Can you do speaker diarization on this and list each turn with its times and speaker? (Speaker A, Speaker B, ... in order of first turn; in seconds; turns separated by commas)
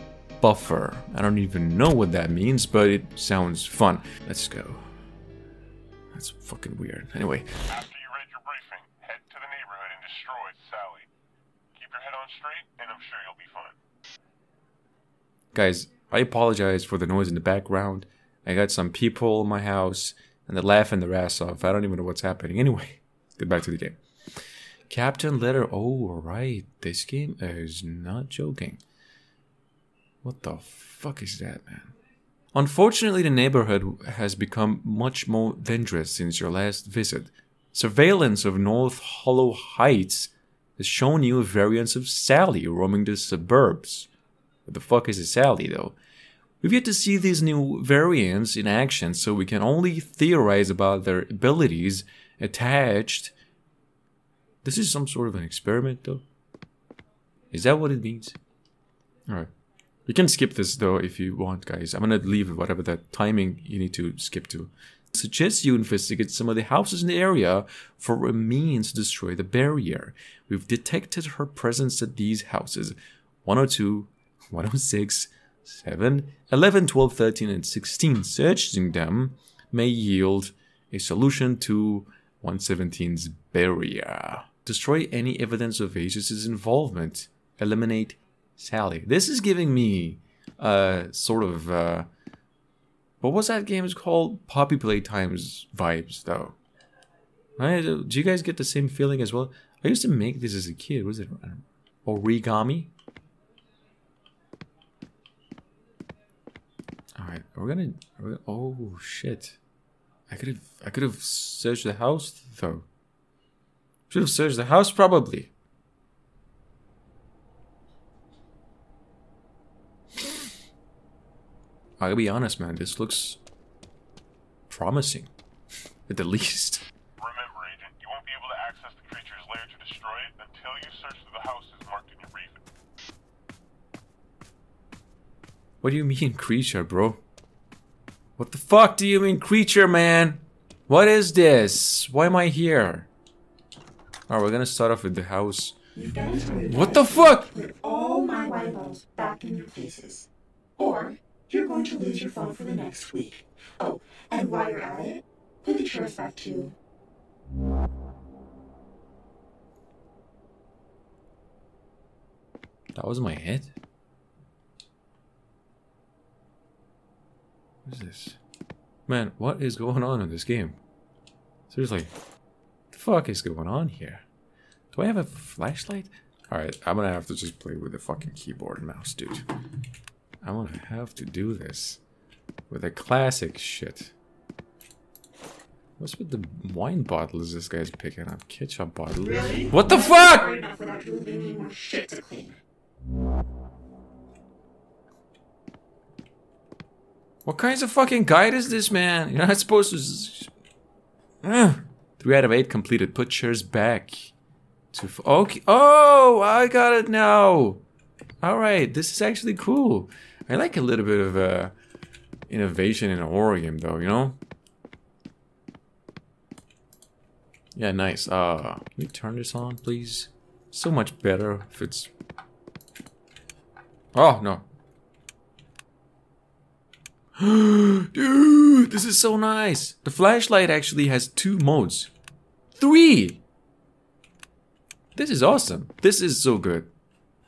Speaker A: 0.4-4.8, Speaker A: 6.1-7.7, Speaker B: 7.7-11.1, Speaker B: 11.7-13.8, Speaker A: 15.5-28.8, Speaker A: 30.2-31.9, Speaker A: 32.5-44.1, Speaker A: 44.6-46.0, Speaker A: 46.6-53.3, Speaker A: 54.6-56.2, Speaker A: 57.5-58.4, Speaker A: 60.0-92.1, Speaker A: 93.2-96.5, Speaker A: 97.6-102.9, Speaker A: 107.2-109.6, Speaker A: 110.3-112.9, Speaker A: 114.1-115.5, Speaker A: 122.0-123.4, Speaker A: 124.7-125.3, Speaker A: 126.1-126.9, Speaker B: 127.2-132.6, Speaker A: 135.8-137.2, Speaker A: 138.4-143.1, Speaker A: 144.3-145.8, Speaker C: 145.9-156.7, Speaker A: 146.7-147.5, Speaker A: 162.9-163.7, Speaker A: 167.8-168.4, Speaker A: 169.1-170.8, Speaker A: 171.7-172.1, Speaker A: 172.9-174.2, Speaker A: 174.9-179.4, Speaker A: 180.4-182.0, Speaker A: 182.7-184.1, Speaker A: 186.0-190.6, Speaker C: 189.3-192.6, Speaker A: 197.4-200.5, Speaker A: 201.4-204.3, Speaker A: 204.9-207.8, Speaker A: 208.4-211.7, Speaker A: 212.5-214.4, Speaker A: 217.7-222.1, Speaker A: 224.1-224.7, Speaker A: 227.4-232.1, Speaker A: 232.8-233.4, Speaker A: 235.1-236.9